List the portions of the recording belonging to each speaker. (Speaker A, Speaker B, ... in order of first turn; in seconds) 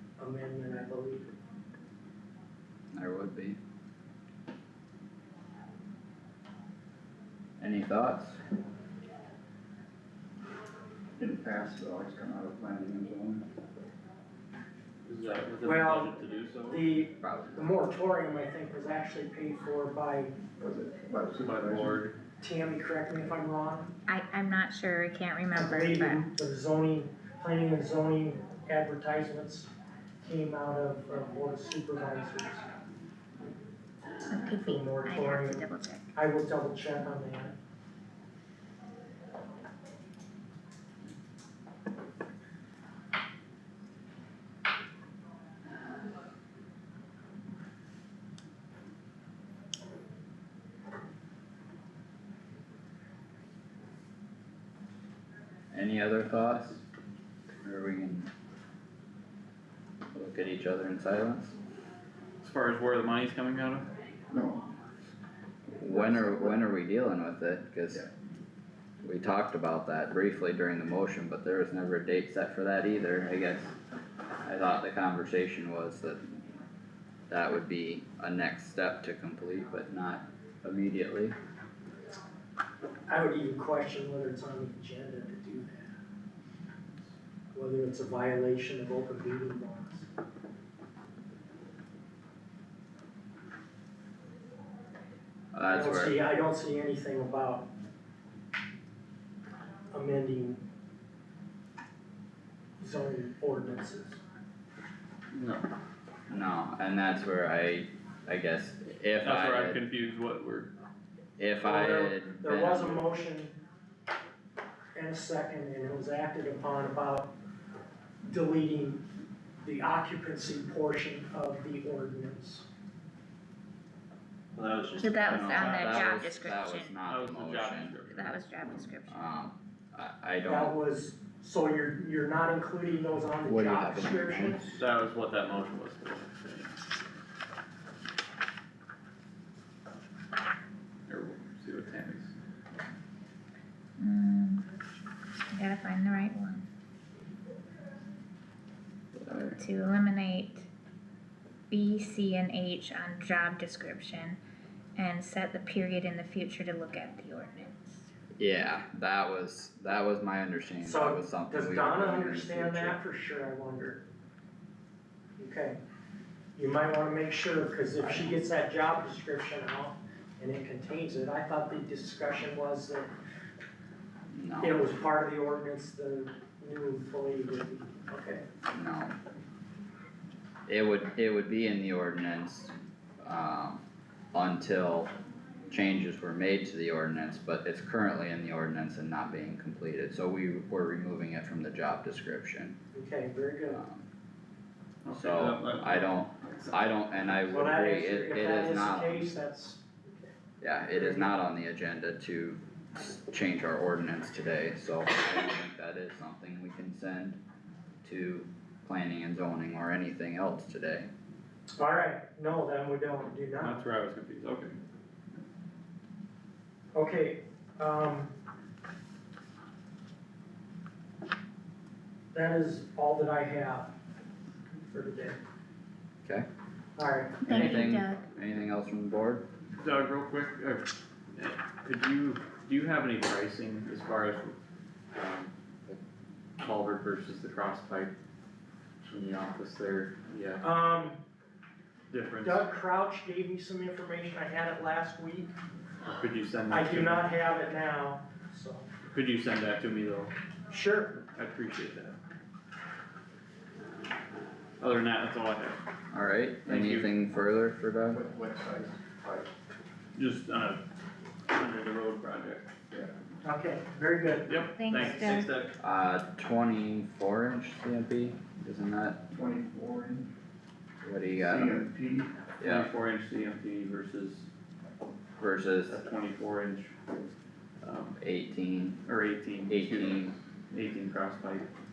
Speaker A: 0.2-1.3, 15.6-20.3, 22.4-23.9, 25.5-29.7, 30.2-32.6, 34.5-37.5, 83.1-86.0, 87.5-90.1, 95.7-97.7, 99.9-100.6, 102.8-104.2, 111.6-113.5, 114.9-117.3, 118.2-119.0, 119.6-122.7, 130.4-134.8, 160.8-164.0, 165.4-165.8, 166.6-173.1, 174.6-178.4, 192.9-193.8, 197.5-200.3, 200.9-201.3, 211.8-213.8, 216.9-218.3, 222.3-223.9, 224.9-225.4, 227.0-228.0, 240.6-241.2, 242.4-245.5, 246.7-248.9, 250.7-251.2, 263.4-265.1
Speaker B: 2.9-3.6, 7.6-8.4, 17.2-17.6, 55.7-56.8, 57.6-58.3, 60.1-61.5, 65.8-68.0, 69.0-73.7, 74.4-76.4, 77.3-81.3, 95.5-96.1, 106.3-109.8, 111.4-113.0, 125.2-128.0, 129.1-130.7, 133.4-134.7, 149.1-149.6, 158.4-163.0, 174.3-174.8, 178.7-179.2, 180.7-183.8, 184.3-185.1, 185.7-192.8, 193.7-194.1, 195.1-199.2, 200.6-207.4, 208.0-211.1, 227.4-229.4, 256.1-258.2, 265.8-269.2, 271.0-271.8, 272.6-272.9, 275.4-276.0, 278.2-279.0, 279.7-280.4
Speaker C: 11.2-13.4, 20.6-22.0, 64.3-64.7, 65.9-66.6, 258.1-259.5, 269.3-270.3, 271.4-272.3
Speaker D: 15.0-16.8, 21.4-22.1, 62.4-63.9, 105.3-105.7, 109.2-110.7, 124.5-125.8, 127.0-128.4, 134.7-136.7, 141.1-142.3, 195.0-196.1, 213.6-214.8, 229.7-234.5, 235.1-236.0, 236.6-238.1, 239.1-240.6, 242.1-242.7, 246.0-247.2, 249.1-250.3, 251.3-252.2, 254.8-255.8, 256.6-257.1, 260.1-260.8, 261.5-262.7, 264.4-265.7, 272.6-274.4, 275.9-276.9, 277.8-278.1, 279.0-281.7
Speaker E: 24.1-26.2, 34.3-36.1, 125.0-126.9, 128.1-129.3, 144.0-144.7, 145.5-146.7, 149.5-150.7, 151.7-154.4, 154.9-158.1, 227.4-228.2, 264.8-265.5